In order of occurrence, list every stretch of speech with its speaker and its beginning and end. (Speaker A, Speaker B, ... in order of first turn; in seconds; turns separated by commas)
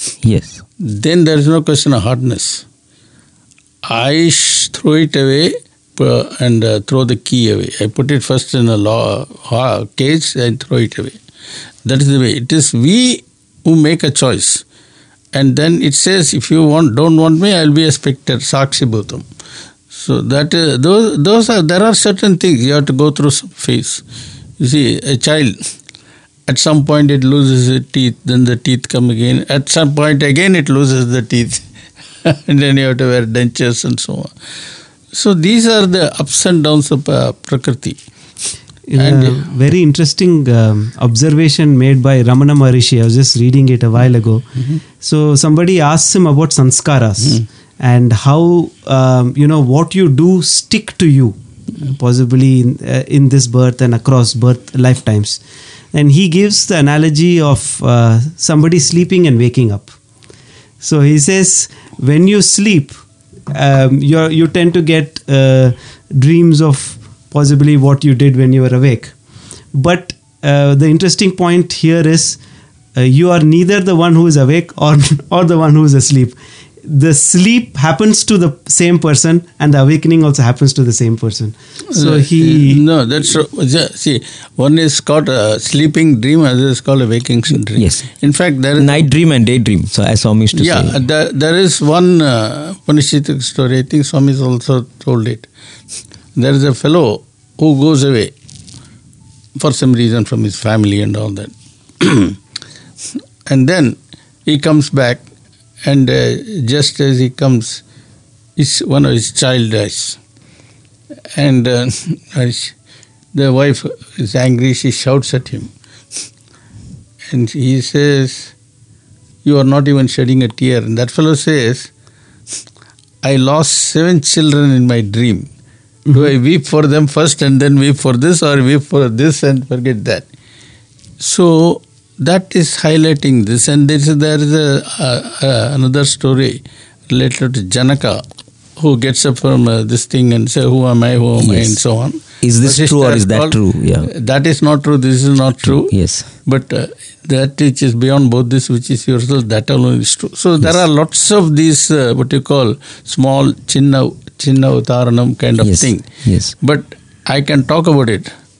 Speaker A: 0.2-0.6, Speaker B: 0.8-2.6, Speaker B: 3.8-11.2, Speaker B: 11.8-14.6, Speaker B: 15.3-19.2, Speaker B: 19.9-24.0, Speaker B: 24.6-25.6, Speaker B: 26.5-31.6, Speaker B: 32.2-34.3, Speaker B: 35.1-38.0, Speaker C: 38.9-55.4, Speaker B: 39.0-39.5, Speaker C: 55.9-60.0, Speaker C: 60.8-63.0, Speaker C: 63.5-69.1, Speaker C: 69.7-72.4, Speaker C: 72.9-82.8, Speaker B: 81.9-89.0, Speaker A: 87.8-88.1, Speaker A: 88.8-91.0, Speaker B: 90.5-95.5, Speaker B: 96.3-98.3, Speaker B: 99.6-102.4, Speaker B: 103.5-105.2, Speaker B: 105.8-107.8, Speaker B: 108.6-110.2, Speaker B: 111.3-112.7, Speaker B: 113.3-115.7, Speaker B: 117.3-118.5, Speaker B: 119.4-121.9, Speaker B: 123.2-125.5, Speaker B: 126.1-130.2, Speaker B: 131.2-138.2, Speaker B: 138.8-158.3, Speaker A: 141.4-141.8, Speaker A: 142.4-144.1, Speaker A: 145.6-146.3, Speaker A: 155.6-156.5